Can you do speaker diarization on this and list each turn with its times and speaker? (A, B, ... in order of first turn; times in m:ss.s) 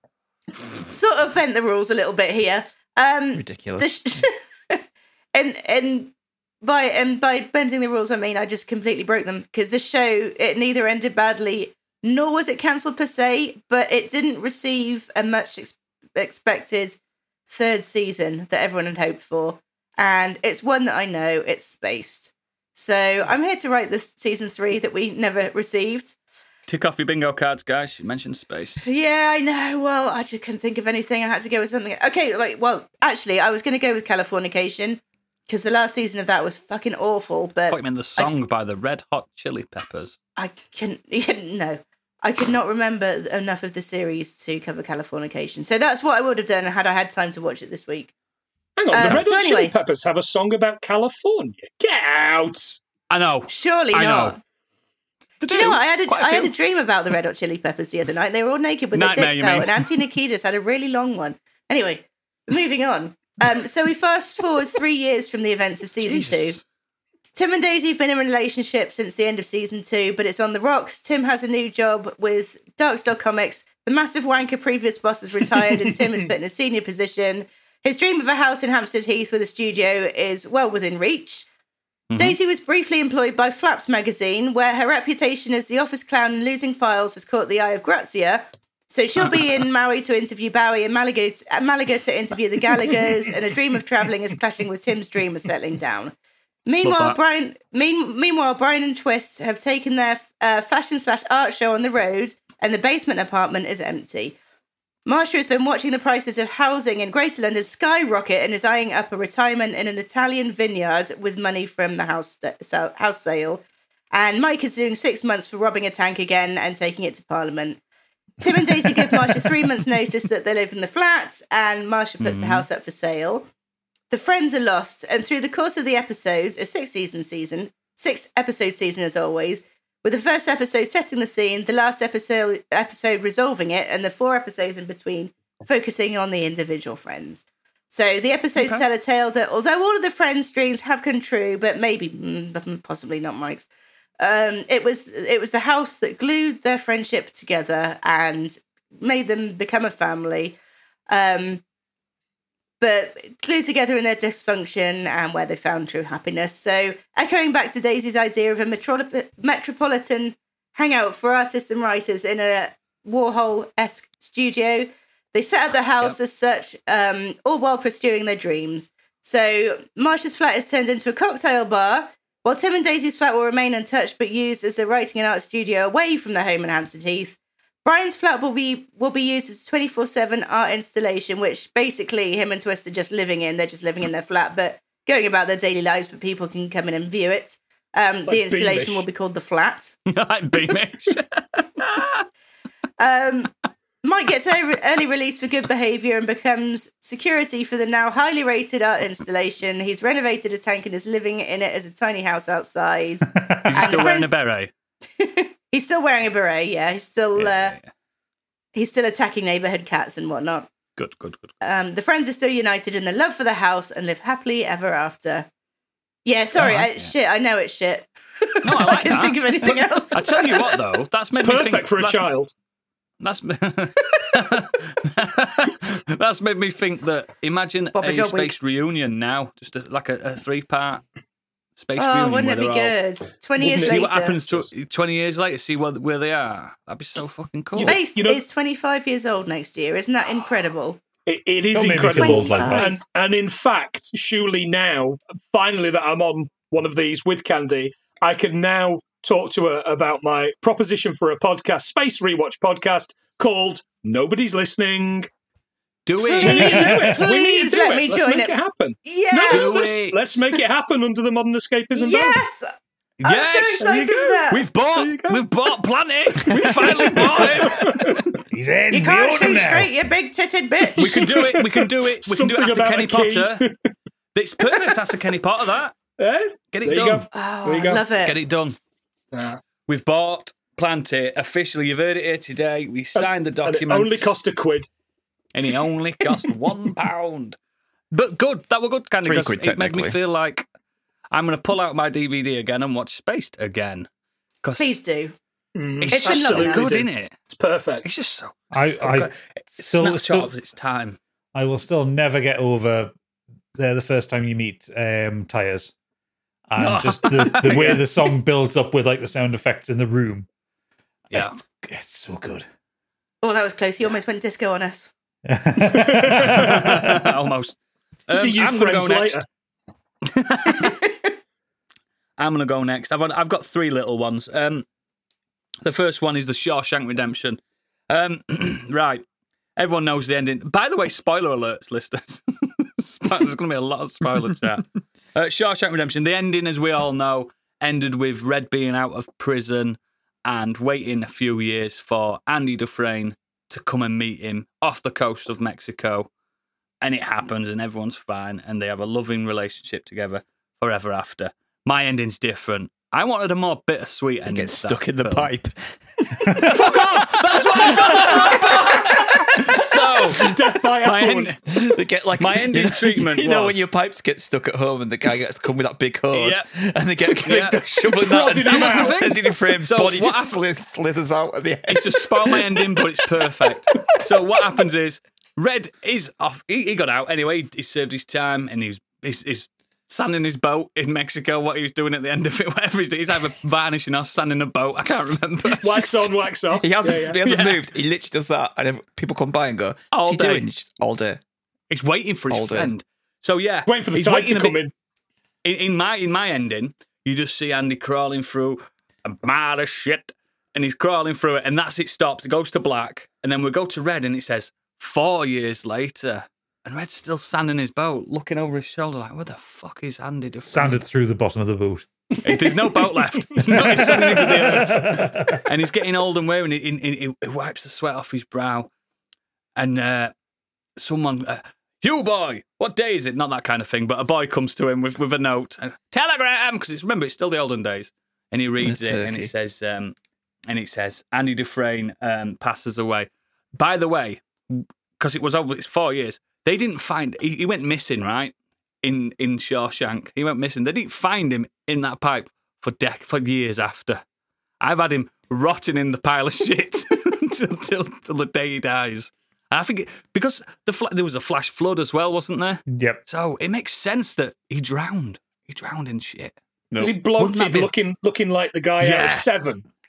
0:00.8-0:04.8 A
0:03.3-0:03.9 B
0:05.3-0:26.2 A
0:26.7-0:28.8 C
0:28.8-0:38.4 A
0:37.7-0:40.2 C
0:40.4-0:48.1 A
0:48.8-0:52.8 D
0:48.9-0:49.7 A
0:53.1-0:54.4 C
0:53.5-0:54.4 A
0:55.4-0:56.5 C
0:55.5-1:06.6 A
0:58.9-0:59.8 C
1:06.0-1:06.6 C
1:07.3-1:21.5 A
1:22.1-1:22.4 C
1:22.2-1:36.1 A
1:36.6-1:44.3 A
1:36.8-1:37.2 C
1:45.0-1:57.8 A
1:58.4-2:03.5 A
2:02.2-2:02.6 C
2:04.1-2:23.7 A
2:18.6-2:18.8 C
2:24.2-2:30.6 A
2:31.1-2:31.6 A
2:32.8-3:10.0 A
3:08.3-3:09.0 D
3:10.1-3:12.3 C
3:13.0-3:24.3 A
3:23.4-3:24.0 E
3:23.6-3:24.7 C
3:25.2-3:27.8 A
3:27.4-3:27.9 C
3:28.7-3:30.7 A
3:31.0-3:31.5 C
3:31.6-3:35.5 A
3:36.2-3:40.8 A
3:36.6-3:37.1 C
3:38.6-3:42.3 C
3:41.3-3:42.5 D
3:43.2-3:51.0 C
3:47.9-3:48.5 A
3:51.8-3:52.9 C
3:52.0-3:54.6 A
3:53.6-3:54.1 D
3:53.6-3:58.0 C
3:57.7-3:58.4 D
3:57.7-4:01.0 A
4:01.2-4:15.3 D
4:01.7-4:03.0 E
4:02.0-4:02.9 A
4:16.0-4:17.0 C
4:16.2-4:18.5 A
4:16.4-4:22.4 D
4:19.0-4:19.8 A
4:19.5-4:20.2 C
4:21.9-4:22.7 A
4:23.2-4:28.2 C
4:23.2-4:24.6 A
4:23.8-4:25.4 D
4:27.0-4:28.4 D
4:28.5-4:29.9 E
4:28.9-4:31.3 A
4:31.0-4:33.9 D
4:31.0-4:33.6 C
4:34.3-4:35.9 C
4:36.2-4:38.1 D
4:36.7-4:37.3 C
4:37.3-4:38.4 A
4:38.2-4:38.8 C
4:39.3-4:39.6 D
4:39.8-4:44.3 C
4:43.2-4:44.9 D
4:45.5-4:47.6 C
4:48.1-4:50.6 C
4:49.2-4:50.2 B
4:51.3-4:54.1 C
4:54.6-4:55.0 C
4:54.8-4:55.3 A
4:55.7-4:58.1 D
4:56.0-4:57.3 C
4:56.1-4:56.9 A
4:58.0-5:01.2 C
4:58.7-5:00.5 E
5:01.5-5:03.1 E
5:03.7-5:05.9 E
5:06.7-5:10.5 E
5:06.8-5:08.1 C
5:07.7-5:08.0 D
5:11.3-5:12.6 E
5:13.4-5:15.1 A
5:15.4-5:17.3 E
5:15.9-5:16.9 D
5:16.3-5:19.4 C
5:18.3-5:19.4 D
5:20.2-5:21.0 C
5:22.4-5:24.8 C
5:25.8-5:29.2 C
5:29.8-5:46.3 C
5:47.0-5:55.5 C
5:54.5-5:56.0 B
5:56.4-6:03.9 C
5:57.8-5:58.5 B
5:59.6-6:01.5 D
6:01.7-6:12.9 B
6:06.3-6:06.7 C
6:07.2-6:07.8 C
6:08.0-6:09.3 D
6:08.6-6:10.6 C
6:11.9-6:26.1 C
6:25.8-6:27.4 D
6:26.8-6:31.4 B
6:27.4-6:27.8 C
6:30.1-6:30.7 C
6:31.9-6:34.8 C
6:32.5-6:32.9 B
6:33.9-6:34.9 D
6:35.6-6:51.0 C
6:50.6-6:52.1 E
6:52.4-6:58.9 C
6:53.6-6:55.6 E
6:59.8-7:00.3 C
7:01.0-7:10.1 C
7:08.8-7:09.5 B
7:10.7-7:24.2 C
7:24.8-7:36.5 C
7:32.9-7:33.2 E
7:37.0-7:39.8 D
7:37.3-7:37.9 C
7:39.0-7:39.5 C